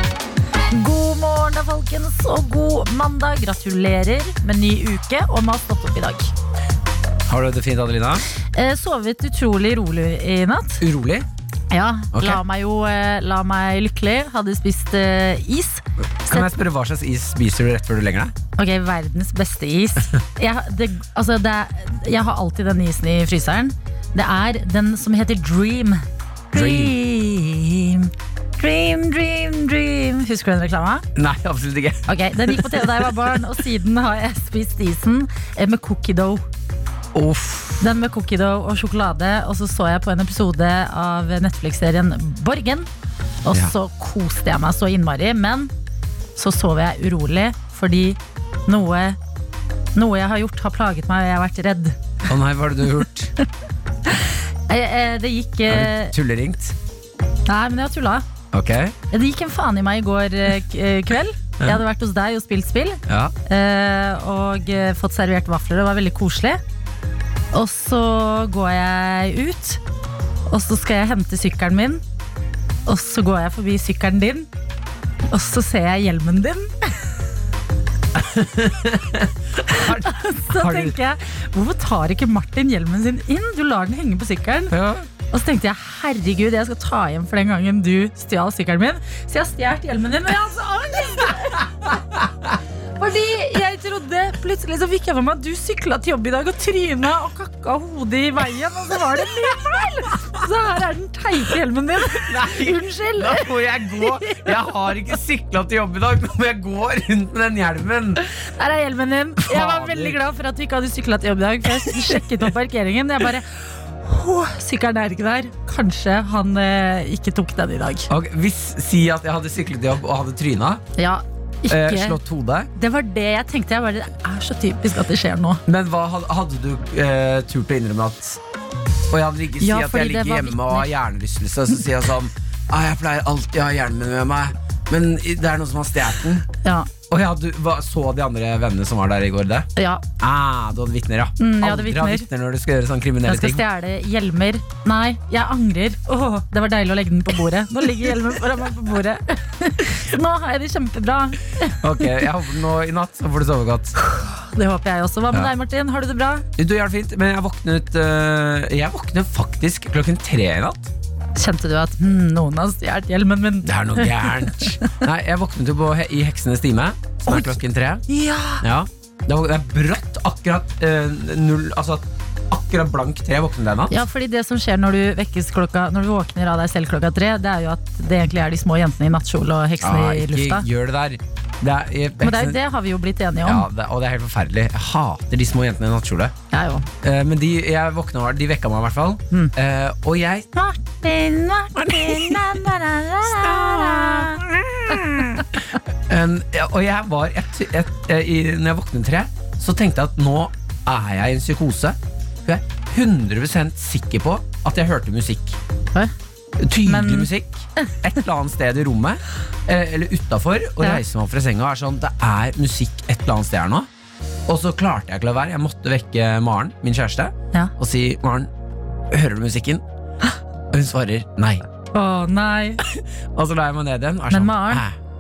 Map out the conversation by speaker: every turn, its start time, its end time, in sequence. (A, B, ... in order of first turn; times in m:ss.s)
0:00.7-0:06.3 A
0:07.3-0:08.2 B
0:08.5-0:10.8 A
0:10.8-0:11.3 B
0:11.7-0:16.5 A
0:12.1-0:12.4 B
0:16.2-0:18.3 B
0:18.6-0:31.0 A
0:26.5-0:27.0 B
0:31.2-0:33.5 B
0:32.1-0:36.4 A
0:37.1-0:37.9 B
0:37.8-0:42.9 A
0:43.4-0:45.7 A
0:46.4-0:49.2 A
0:50.0-0:52.0 A
0:52.3-0:53.3 B
0:54.1-0:56.2 A
0:55.7-0:56.8 B
0:57.5-0:58.2 A
0:58.5-0:59.0 B
0:59.1-1:06.6 A
1:03.1-1:03.3 B
1:07.5-1:09.8 A
1:10.5-1:12.0 A
1:12.9-1:14.5 A
1:15.3-1:17.0 A
1:18.1-1:21.0 B
1:19.7-1:24.7 A
1:24.7-1:25.1 B
1:25.3-1:32.0 A
1:33.0-1:44.5 A
1:42.1-1:48.2 B
1:48.3-1:53.5 A
1:49.4-1:50.2 B
1:54.0-1:58.1 A
1:58.1-2:00.8 B
2:01.0-2:02.2 A
2:01.7-2:02.7 B
2:02.8-2:05.6 A
2:05.7-2:08.4 B
2:09.1-2:16.5 B
2:09.6-2:10.9 A
2:16.6-2:16.9 A
2:17.1-2:19.7 B
2:19.8-2:20.0 A
2:20.2-2:23.6 B
2:21.4-2:22.3 A
2:23.3-2:31.8 A
2:31.8-2:33.9 B
2:34.0-2:36.4 A
2:36.6-2:40.9 B
2:41.4-2:44.7 A
2:43.6-2:48.0 B
2:47.3-2:48.6 A
2:48.6-2:54.0 B
2:53.9-3:00.6 A
2:59.8-3:02.6 B
3:02.2-3:03.7 A
3:03.4-3:06.3 B
3:06.5-3:06.9 A
3:07.0-3:10.5 B
3:10.6-3:14.4 A
3:11.8-3:12.6 B
3:13.3-3:15.4 B
3:16.1-3:25.6 B
3:26.6-3:33.9 B
3:26.8-3:27.3 A
3:34.5-3:38.5 B
3:39.1-3:39.8 B
3:40.7-3:41.6 B
3:41.9-3:42.8 A
3:42.8-3:45.0 B
3:44.3-3:44.8 A